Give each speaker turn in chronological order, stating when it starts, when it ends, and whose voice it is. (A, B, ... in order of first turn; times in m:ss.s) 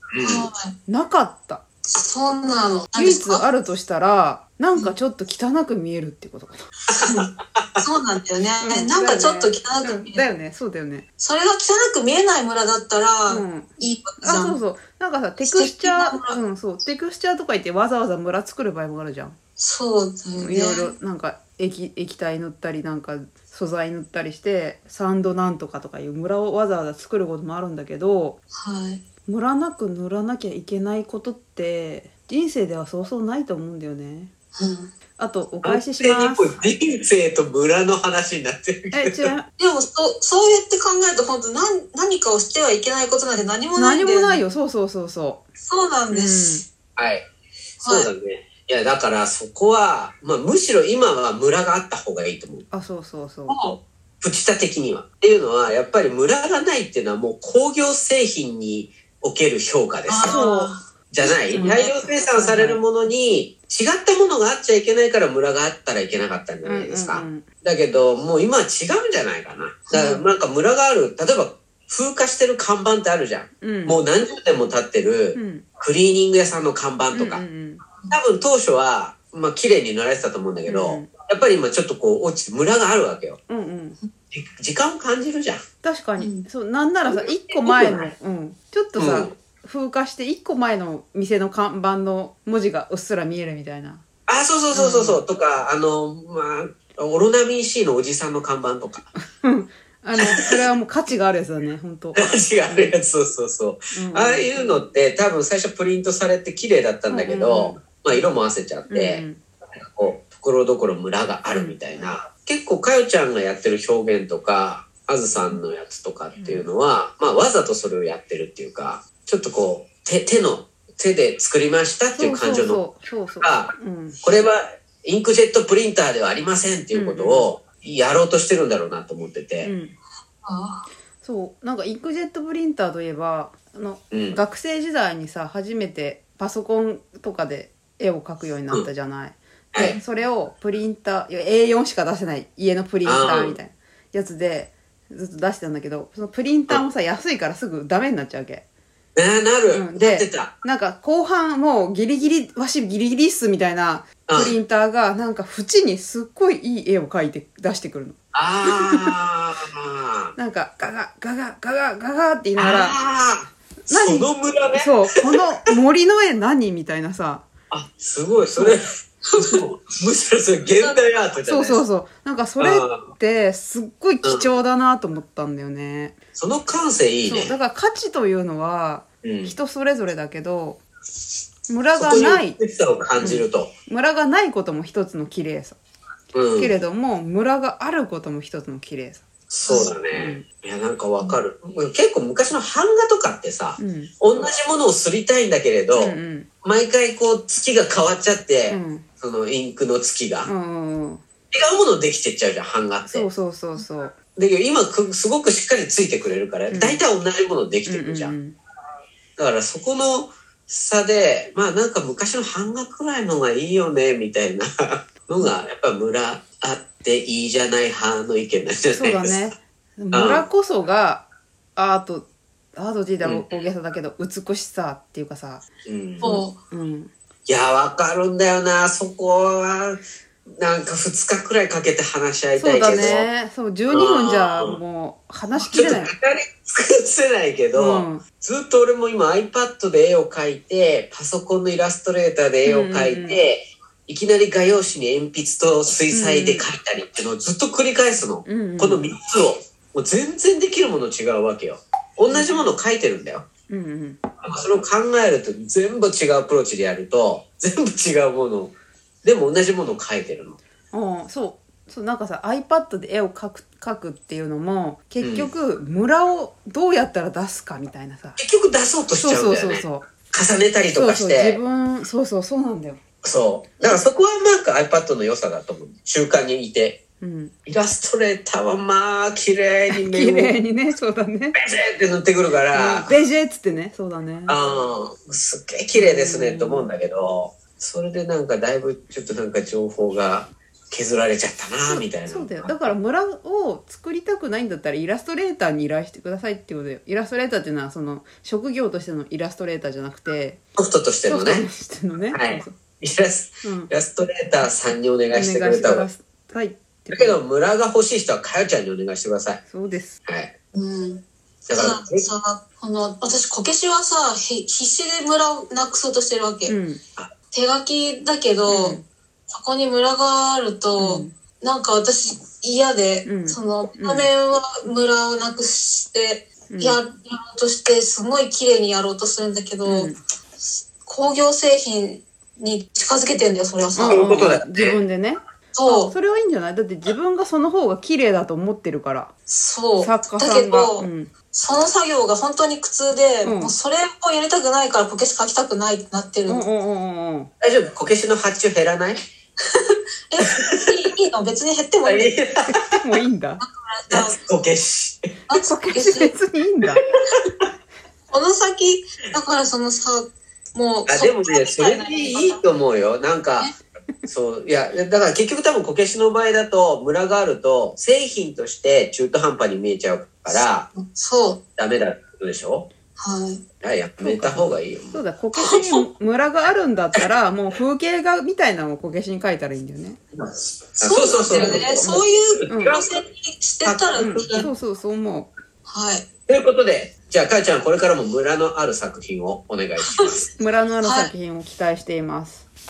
0:00.1-0:00.4 A
0:00.2-0:00.7 B
0:00.9-0:01.6 C
0:01.9-0:03.4 B
0:03.0-0:06.6 C
0:06.9-0:07.3 B
0:07.5-0:07.8 A
0:07.8-0:10.3 B
0:08.6-0:11.0 C
0:11.2-0:14.6 B
0:13.3-0:13.7 C
0:14.2-0:19.4 C
0:15.4-0:16.4 B
0:19.6-0:20.9 B
0:20.4-0:28.4 C
0:28.6-0:29.0 B
0:29.2-0:34.3 C
0:34.6-0:34.9 B
0:35.2-0:36.5 C
0:35.6-0:39.2 A
0:38.9-0:39.5 C
0:39.6-0:44.4 B
0:43.8-0:45.4 C
0:45.6-0:46.6 B
0:46.1-0:46.6 C
0:47.0-0:47.2 A
0:47.8-0:48.1 B
0:47.8-0:52.6 A
0:52.7-0:53.6 C
0:53.5-0:53.8 B
0:54.2-1:00.4 A
1:00.1-1:01.8 B
1:00.3-1:00.7 C
1:01.1-1:17.4 A
1:01.5-1:02.8 C
1:06.6-1:07.4 C
1:09.9-1:10.2 B
1:13.6-1:14.0 C
1:15.3-1:15.6 C
1:17.1-1:17.8 C
1:18.1-1:23.4 A
1:20.7-1:21.1 C
1:23.5-1:24.0 C
1:24.3-1:25.6 A
1:25.8-1:34.0 C
1:26.2-1:26.5 B
1:27.0-1:28.1 A
1:29.0-1:29.3 A
1:34.3-1:39.1 A
1:34.7-1:35.2 C
1:39.2-1:42.8 C
1:40.1-1:40.6 A
1:42.1-1:49.2 A
1:43.9-1:44.8 C
1:47.1-1:47.8 C
1:48.9-1:49.4 C
1:49.8-2:02.8 A
1:51.5-1:52.1 C
1:56.4-1:56.7 C
2:02.2-2:04.2 C
2:03.4-2:09.7 A
2:06.9-2:07.5 C
2:09.6-2:09.9 C
2:10.4-2:10.8 B
2:11.2-2:28.6 C
2:14.1-2:14.4 A
2:23.0-2:23.6 A
2:29.2-2:30.5 A
2:29.7-2:39.1 C
2:34.3-2:34.6 A
2:38.3-2:40.3 A
2:40.4-2:43.0 C
2:42.6-2:44.9 A
2:43.9-2:47.4 C
2:47.7-2:48.8 A
2:49.4-2:51.8 A
2:51.4-2:56.2 C
2:52.6-2:53.1 A
2:56.4-2:57.6 A
2:57.2-3:00.8 C
2:59.2-2:59.6 A
3:01.7-3:02.6 C
3:01.9-3:03.7 A
3:03.2-3:05.8 C
3:06.3-3:06.7 A
3:06.6-3:09.2 C
3:09.5-3:20.5 A
3:09.7-3:09.9 B
3:10.1-3:10.4 C
3:13.8-3:14.1 C
3:15.9-3:16.5 C
3:18.7-3:19.0 C
3:20.4-3:21.2 C
3:21.5-3:23.3 A
3:23.1-3:24.2 C
3:24.3-3:28.3 A
3:26.7-3:27.0 C
3:27.9-3:28.6 C
3:29.4-3:39.4 A
3:38.9-3:41.2 C
3:40.1-3:40.4 A
3:41.8-3:45.6 C
3:43.2-3:43.5 A
3:45.8-3:46.3 A
3:46.2-3:46.6 B
3:46.2-3:47.1 C
3:47.5-3:50.0 A
3:50.5-3:53.3 A
3:52.6-3:56.1 C
3:53.9-3:54.8 A
3:55.7-4:13.4 A
3:57.7-3:58.2 C
4:02.6-4:03.4 C
4:06.1-4:06.6 C
4:08.4-4:09.1 C
4:12.3-4:12.7 C
4:13.7-4:14.2 C
4:14.4-4:20.6 A
4:20.9-4:28.4 C
4:25.2-4:25.5 A
4:28.4-4:31.6 A
4:29.2-4:30.1 C
4:30.9-4:33.0 C
4:33.2-4:37.0 A
4:37.2-4:37.5 C
4:37.6-4:40.5 A
4:39.9-4:41.6 C
4:41.5-4:43.1 A
4:42.7-4:44.6 C
4:44.5-4:52.9 A
4:45.9-4:46.9 C
4:51.9-5:00.6 C
5:00.8-5:01.7 A
5:01.2-5:02.8 C
5:02.3-5:06.1 A
5:03.6-5:03.9 C
5:05.3-5:07.4 C
5:07.1-5:09.6 A
5:09.6-5:10.2 C
5:10.2-5:10.5 A
5:10.7-5:16.7 B
5:11.7-5:12.2 A
5:16.6-5:17.0 C
5:17.5-5:19.0 B
5:18.7-5:19.0 C
5:19.5-5:34.3 B
5:21.0-5:21.3 C
5:23.2-5:24.3 C
5:26.7-5:27.0 C
5:29.8-5:30.2 C
5:34.0-5:39.3 C
5:34.1-5:35.0 A
5:35.7-5:36.1 B
5:39.5-5:46.6 B
5:40.0-5:41.3 C
5:43.4-5:43.7 C
5:46.5-5:47.5 C
5:47.6-5:49.2 A
5:49.8-5:52.3 B
5:52.0-5:52.7 A
5:52.7-5:53.6 C
5:53.6-5:54.4 B
5:54.1-5:55.2 A
5:55.5-5:56.3 B
5:55.6-5:57.0 C
5:58.3-6:02.6 B
6:01.1-6:03.7 A
6:04.2-6:10.9 A
6:10.6-6:11.6 B
6:11.8-6:12.9 A
6:13.2-6:13.6 B
6:13.8-6:15.9 A
6:14.2-6:20.2 C
6:20.4-6:23.0 A
6:21.0-6:24.7 B
6:22.7-6:23.0 C
6:23.8-6:24.7 A
6:24.2-6:25.5 C
6:25.8-6:26.2 B
6:26.5-6:30.5 A
6:30.6-6:32.6 C
6:31.0-6:31.3 B